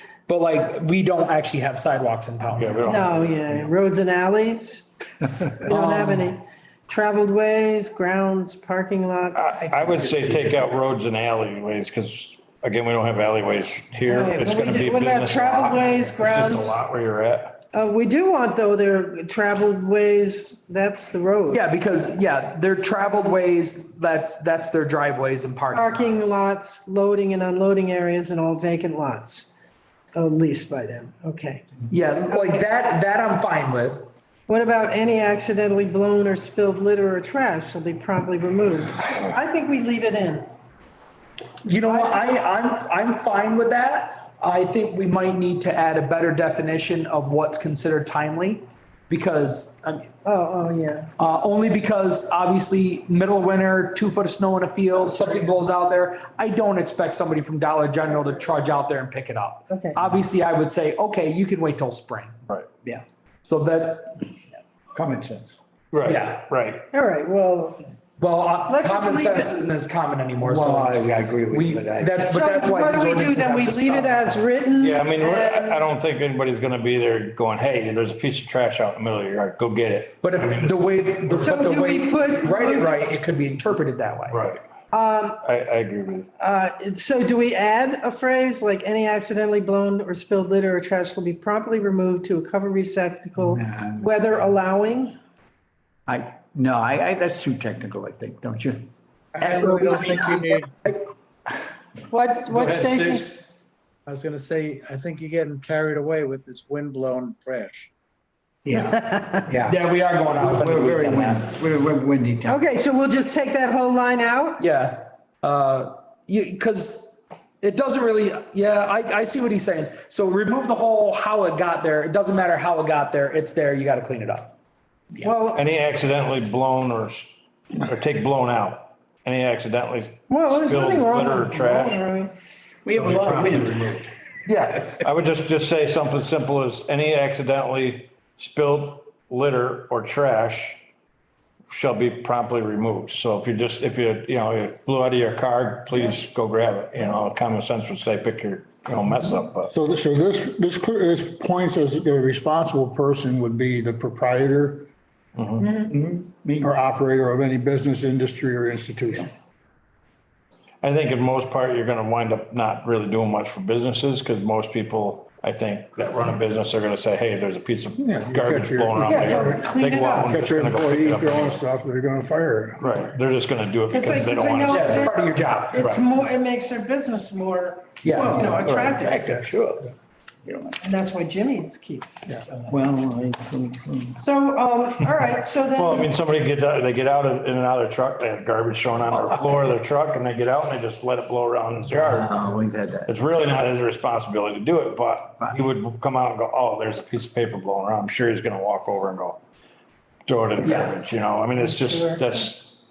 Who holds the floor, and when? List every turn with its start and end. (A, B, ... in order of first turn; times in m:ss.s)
0:00.3-0:03.0 A
0:02.6-0:03.6 B
0:02.9-0:09.7 C
0:05.7-0:06.4 A
0:09.3-0:17.6 B
0:09.8-0:10.4 D
0:14.0-0:16.8 C
0:17.7-0:21.6 C
0:21.5-0:26.4 A
0:25.7-0:29.5 C
0:30.1-0:31.7 C
0:31.9-0:34.1 A
0:34.5-0:40.5 C
0:41.6-0:50.1 A
0:41.8-0:42.2 C
0:50.2-0:51.1 C
0:51.2-1:02.4 A
0:59.7-1:00.0 C
1:03.4-1:04.2 A
1:04.9-1:05.6 D
1:05.9-1:06.8 B
1:06.0-1:06.5 A
1:06.9-1:07.8 C
1:08.2-1:14.3 A
1:08.7-1:09.7 C
1:10.4-1:12.3 D
1:12.3-1:15.9 C
1:14.8-1:21.5 B
1:20.2-1:24.4 A
1:21.4-1:23.0 C
1:24.3-1:24.6 B
1:24.9-1:25.4 C
1:25.4-1:26.3 B
1:26.4-1:35.2 C
1:33.4-1:34.4 D
1:36.1-1:38.9 D
1:39.3-1:40.8 E
1:39.4-1:41.1 D
1:42.1-1:43.4 C
1:42.5-1:43.4 B
1:44.1-1:47.9 E
1:48.6-1:52.6 D
1:49.2-1:49.4 C
1:49.6-1:51.5 A
1:52.4-1:54.6 C
1:54.6-2:04.5 A
2:05.1-2:05.4 D
2:05.2-2:05.6 C
2:05.5-2:12.0 B
2:10.3-2:12.3 C
2:12.8-2:14.1 D
2:12.9-2:14.1 B
2:14.5-2:14.9 A
2:15.0-2:20.8 B
2:21.7-2:29.7 B
2:29.7-2:34.9 F
2:35.4-2:35.7 B
2:35.6-2:35.9 C
2:35.7-2:36.7 D
2:36.6-2:39.3 F
2:40.8-2:51.6 B
2:48.0-2:53.0 F
2:49.1-2:50.3 C
2:52.8-2:55.1 B
2:53.9-2:59.4 C
2:54.7-2:55.9 A
2:55.7-2:56.1 B
2:58.0-2:58.4 A
2:58.1-2:59.9 D
2:58.6-2:59.4 B
3:00.4-3:00.8 D
3:00.8-3:02.2 C
3:02.5-3:04.2 D
3:04.2-3:06.1 C
3:05.8-3:12.4 B
3:12.0-3:13.1 D
3:13.1-3:19.4 B
3:20.3-3:22.8 B
3:20.6-3:20.9 A
3:21.6-3:22.4 C